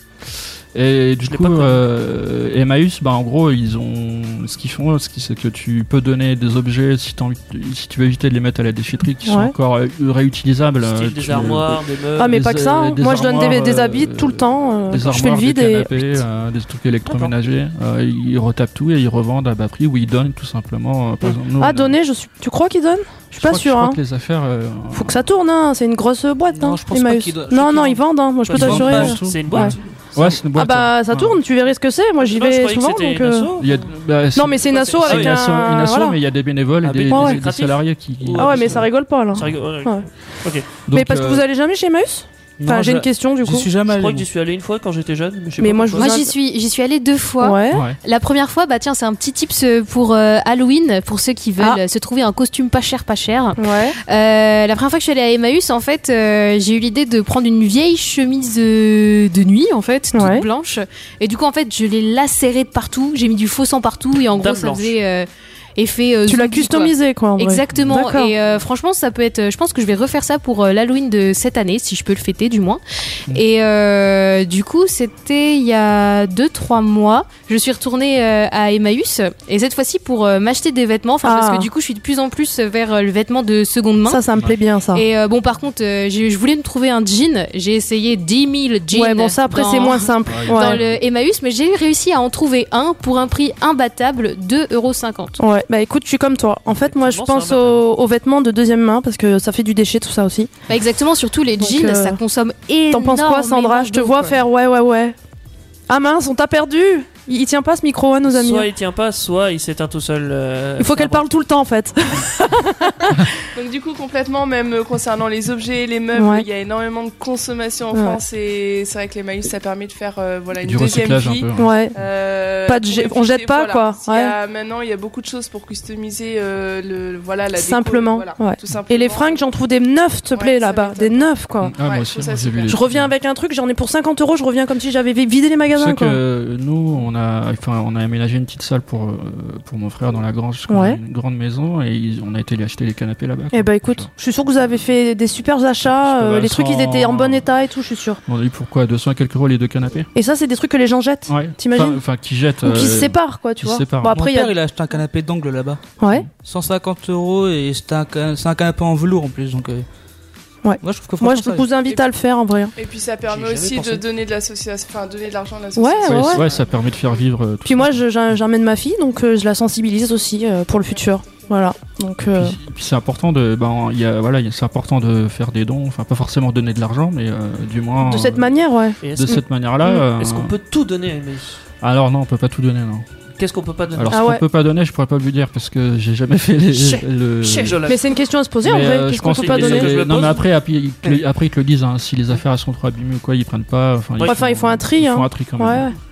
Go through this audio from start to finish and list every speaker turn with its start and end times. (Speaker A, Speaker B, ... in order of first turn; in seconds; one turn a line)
Speaker A: 0.7-22.0
Speaker B: 1.2-1.8
Speaker C: 9.2-9.5
Speaker B: 10.8-12.4
Speaker C: 12.2-16.2
Speaker C: 21.6-24.0
Speaker A: 23.4-25.2
Speaker C: 24.9-29.7
Speaker D: 26.5-28.0
Speaker B: 28.5-30.3
Speaker D: 28.5-29.1
Speaker A: 28.6-31.4
Speaker C: 30.5-33.5
Speaker B: 32.2-33.8
Speaker A: 33.6-38.9
Speaker C: 34.3-36.2
Speaker B: 34.7-35.4
Speaker B: 36.9-40.7
Speaker C: 37.1-37.4
Speaker C: 38.4-40.0
Speaker A: 40.9-41.4
Speaker C: 40.9-43.7
Speaker D: 42.6-44.2
Speaker B: 43.9-46.1
Speaker C: 45.6-46.3
Speaker E: 46.0-84.2
Speaker C: 47.4-47.8
Speaker A: 47.7-48.0
Speaker C: 53.6-54.0
Speaker C: 60.1-60.5
Speaker B: 64.3-65.0
Speaker C: 66.3-68.3
Speaker A: 67.7-68.0
Speaker C: 81.2-81.7
Speaker C: 84.1-85.0
Speaker E: 84.9-95.4
Speaker C: 88.9-90.8
Speaker A: 90.2-91.0
Speaker C: 95.4-100.5
Speaker B: 96.8-97.8
Speaker E: 100.7-104.4
Speaker C: 101.6-102.2
Speaker C: 102.9-105.1
Speaker C: 105.9-108.7
Speaker B: 108.3-111.2
Speaker C: 110.8-113.3
Speaker F: 113.5-129.4
Speaker C: 116.1-116.5
Speaker C: 117.9-118.2
Speaker A: 120.6-121.7
Speaker C: 121.5-122.0
Speaker C: 122.7-124.3
Speaker C: 127.5-131.8
Speaker F: 130.3-132.8
Speaker A: 131.6-133.1
Speaker C: 132.7-136.2
Speaker A: 135.7-144.1
Speaker C: 140.7-141.0
Speaker C: 143.5-148.2
Speaker A: 146.0-147.5
Speaker A: 148.3-150.1
Speaker C: 150.1-152.0
Speaker A: 151.3-154.2
Speaker C: 152.6-154.5
Speaker D: 154.1-159.8
Speaker C: 156.0-156.3
Speaker C: 160.6-162.7
Speaker D: 160.8-161.7
Speaker F: 162.8-166.6
Speaker B: 163.3-164.1
Speaker C: 165.8-166.4
Speaker A: 166.0-168.0
Speaker C: 167.6-172.6
Speaker A: 172.3-178.5
Speaker C: 178.0-179.0
Speaker B: 179.0-181.6
Speaker A: 179.1-180.5
Speaker A: 181.8-183.0
Speaker B: 183.4-184.2
Speaker A: 183.9-187.9
Speaker C: 184.1-184.4
Speaker B: 186.7-188.2
Speaker C: 187.8-190.0
Speaker A: 188.6-195.9
Speaker B: 189.3-190.4
Speaker C: 194.2-195.9